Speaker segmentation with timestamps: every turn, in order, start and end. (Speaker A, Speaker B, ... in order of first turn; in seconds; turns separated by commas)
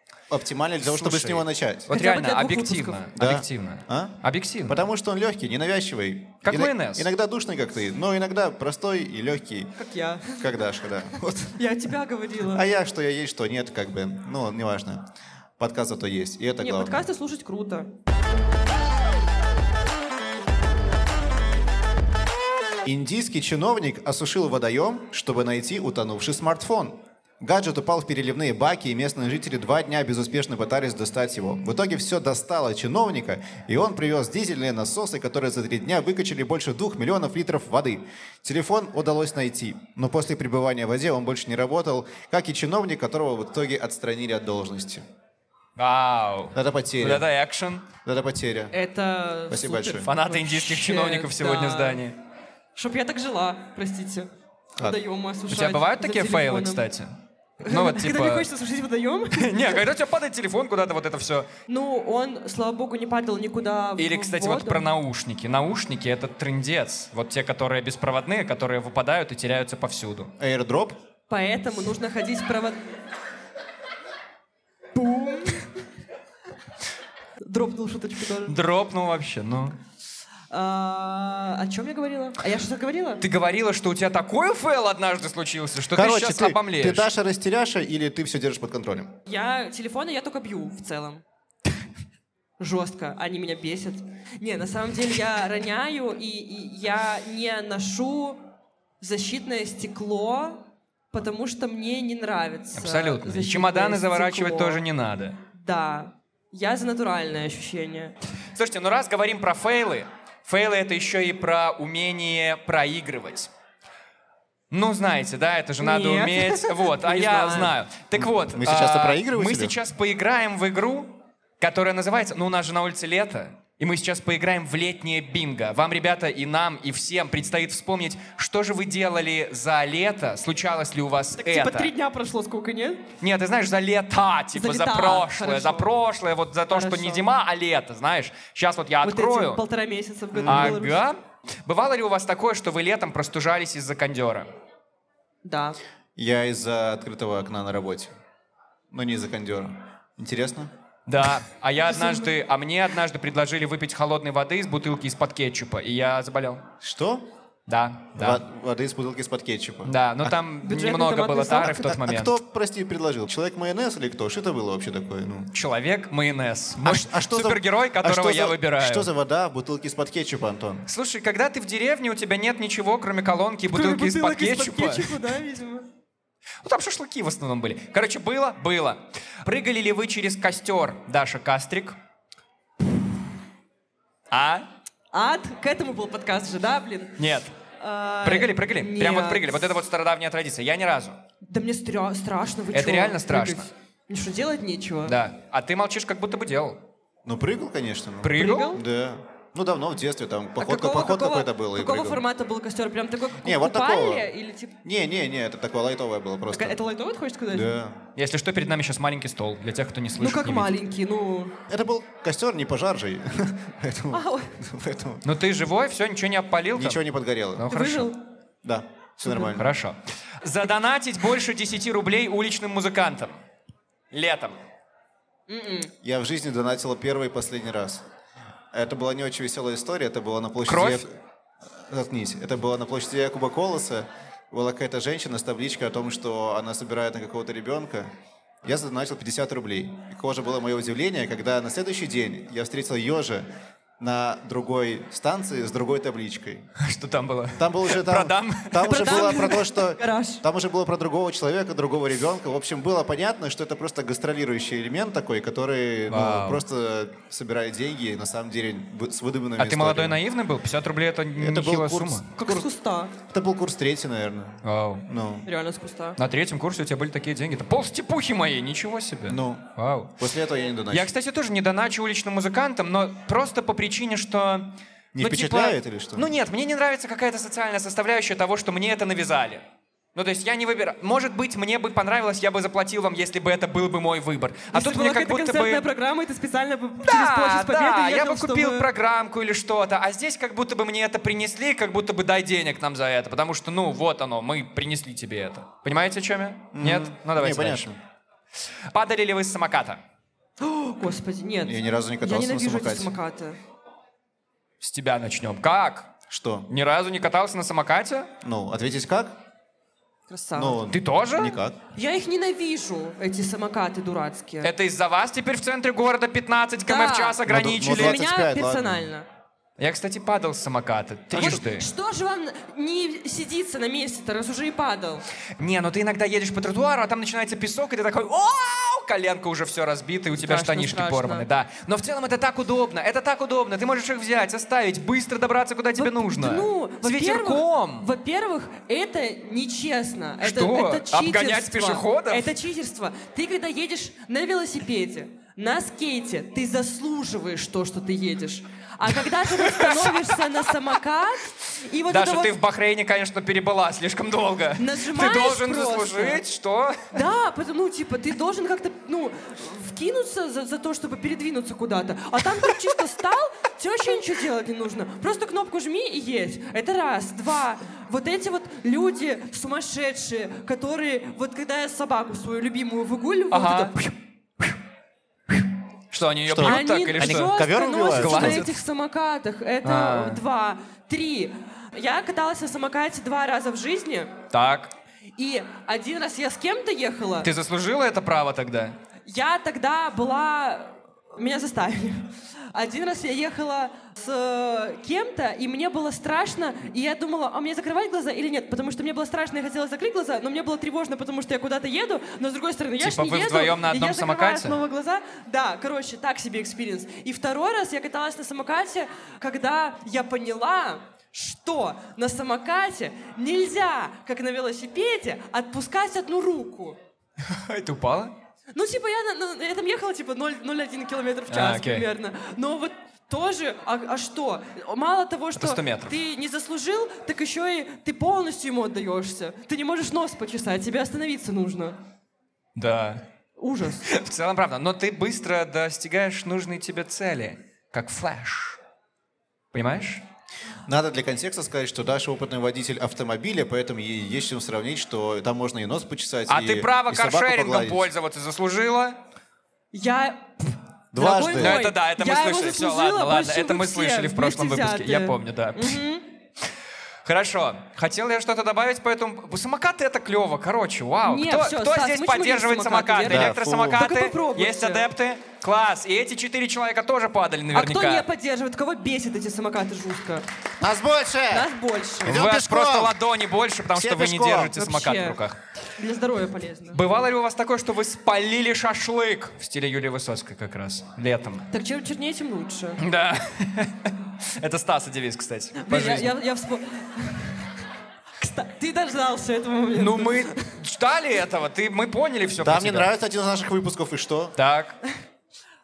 Speaker A: 0.3-1.9, Speaker B: 0.8-4.8, Speaker C: 1.9-3.1, Speaker A: 3.2-9.7, Speaker B: 6.4-7.1, Speaker C: 9.8-10.5, Speaker A: 10.4-11.6, Speaker C: 11.5-12.7, Speaker A: 12.5-17.1, Speaker C: 16.6-17.9, Speaker A: 22.8-45.0, Speaker B: 45.8-47.9, Speaker A: 46.5-47.3, Speaker A: 48.0-48.7, Speaker C: 48.7-52.0, Speaker A: 49.5-50.1, Speaker B: 50.0-52.2, Speaker C: 52.8-54.3, Speaker C: 54.8-56.9, Speaker B: 55.5-57.1, Speaker B: 57.6-58.5, Speaker C: 57.6-59.9, Speaker B: 59.3-61.5, Speaker C: 61.7-64.8, Speaker B: 64.0-70.3, Speaker A: 70.4-71.0, Speaker C: 71.3-72.8, Speaker C: 74.9-75.7, Speaker C: 77.4-78.6, Speaker B: 78.5-79.8, Speaker C: 80.5-83.2, Speaker B: 83.2-87.1, Speaker A: 85.9-89.2, Speaker C: 89.3-91.2, Speaker C: 92.6-98.4, Speaker C: 99.0-104.8, Speaker B: 102.8-105.4, Speaker C: 105.5-108.2, Speaker B: 108.5-113.5, Speaker B: 114.7-131.9, Speaker C: 115.8-117.8, Speaker A: 118.2-119.8, Speaker C: 131.4-133.1, Speaker B: 133.2-139.6, Speaker C: 134.5-135.9, Speaker C: 136.7-137.3, Speaker C: 139.0-141.0, Speaker A: 140.3-140.8, Speaker B: 140.5-144.5, Speaker C: 145.4-145.8, Speaker A: 146.2-148.1, Speaker A: 148.9-150.7, Speaker B: 151.1-156.7, Speaker C: 151.9-152.3, Speaker A: 156.8-157.2, Speaker B: 157.7-158.4, Speaker A: 158.2-160.4, Speaker B: 159.9-162.3, Speaker C: 160.6-161.8, Speaker A: 161.6-165.5, Speaker B: 165.5-169.1, Speaker A: 166.8-170.8, Speaker B: 170.9-175.2, Speaker C: 173.7-175.9, Speaker B: 176.6-182.0, Speaker B: 184.3-184.7, Speaker C: 185.1-187.2, Speaker B: 187.2-187.5, Speaker C: 187.8-189.7, Speaker B: 188.2-191.2, Speaker C: 191.4-195.2, Speaker B: 192.7-193.7, Speaker B: 195.1-196.8, Speaker A: 197.2-202.2, Speaker B: 198.2-198.8, Speaker C: 198.3-198.8, Speaker C: 200.6-204.8, Speaker A: 203.4-204.3, Speaker A: 204.8-206.8, Speaker C: 206.5-207.7, Speaker A: 207.5-208.1, Speaker B: 208.2-210.8, Speaker C: 210.2-211.6, Speaker A: 211.7-215.2, Speaker C: 214.1-214.5, Speaker B: 215.2-217.0, Speaker A: 216.8-217.7, Speaker B: 217.6-218.1, Speaker C: 217.7-218.2, Speaker A: 218.6-219.7, Speaker B: 219.4-223.4, Speaker B: 224.1-224.6, Speaker C: 225.5-225.9, Speaker A: 226.0-228.0, Speaker A: 228.7-231.1, Speaker B: 230.7-231.0, Speaker A: 231.8-238.1, Speaker A: 238.6-243.4, Speaker A: 244.0-246.7, Speaker B: 246.8-249.4, Speaker A: 247.6-260.2, Speaker C: 248.9-250.4, Speaker B: 256.1-256.6, Speaker B: 259.6-262.3, Speaker A: 261.4-262.4, Speaker C: 262.4-263.1, Speaker A: 263.3-265.5, Speaker B: 264.6-265.1, Speaker C: 265.5-266.2, Speaker B: 266.2-270.2, Speaker A: 269.3-271.1, Speaker B: 270.9-279.6, Speaker A: 275.1-276.3, Speaker B: 280.1-285.9, Speaker C: 284.7-288.9, Speaker B: 287.0-297.9, Speaker A: 296.8-298.0, Speaker B: 298.9-300.0, Speaker C: 300.6-303.6, Speaker A: 301.6-303.1, Speaker B: 304.8-306.1, Speaker A: 306.3-306.7, Speaker B: 306.7-308.3, Speaker A: 308.4-309.4, Speaker C: 310.3-310.8, Speaker A: 310.6-311.8, Speaker B: 310.9-311.6, Speaker C: 311.9-314.7, Speaker B: 314.6-318.2, Speaker C: 316.8-319.3, Speaker A: 317.5-319.1, Speaker B: 319.8-321.9, Speaker A: 321.3-321.6, Speaker C: 321.3-325.2, Speaker B: 325.6-338.1, Speaker C: 330.4-331.5, Speaker C: 336.0-352.6, Speaker B: 340.4-342.5, Speaker B: 349.4-350.4, Speaker B: 352.1-357.2, Speaker C: 354.8-356.4, Speaker C: 357.1-374.2, Speaker B: 373.5-373.9, Speaker B: 376.1-377.5, Speaker A: 376.5-378.7, Speaker C: 376.6-384.4, Speaker B: 378.1-378.8, Speaker B: 379.8-380.4, Speaker B: 384.5-384.9, Speaker C: 385.4-387.5, Speaker B: 387.4-389.0, Speaker C: 389.3-417.0, Speaker B: 403.0-404.8, Speaker B: 417.4-418.4, Speaker C: 418.8-432.0, Speaker B: 421.5-422.1, Speaker B: 425.6-426.2, Speaker B: 432.8-433.2, Speaker C: 433.6-434.1, Speaker B: 434.0-438.8, Speaker B: 439.7-440.2, Speaker A: 440.9-448.1, Speaker B: 446.5-449.2, Speaker C: 449.9-456.3, Speaker A: 451.1-451.8, Speaker B: 451.6-456.0, Speaker B: 457.2-468.3, Speaker C: 461.2-465.1, Speaker A: 463.3-464.1, Speaker C: 467.7-470.4, Speaker A: 470.8-471.7, Speaker C: 471.5-472.4, Speaker A: 472.2-473.2, Speaker B: 472.3-475.6, Speaker A: 473.9-474.8, Speaker C: 474.8-475.4, Speaker C: 476.0-477.1, Speaker B: 476.9-481.7, Speaker C: 481.7-483.0, Speaker B: 483.0-486.3, Speaker C: 485.8-487.7, Speaker C: 488.4-490.8, Speaker B: 489.9-493.1, Speaker A: 492.6-494.6, Speaker B: 494.6-495.0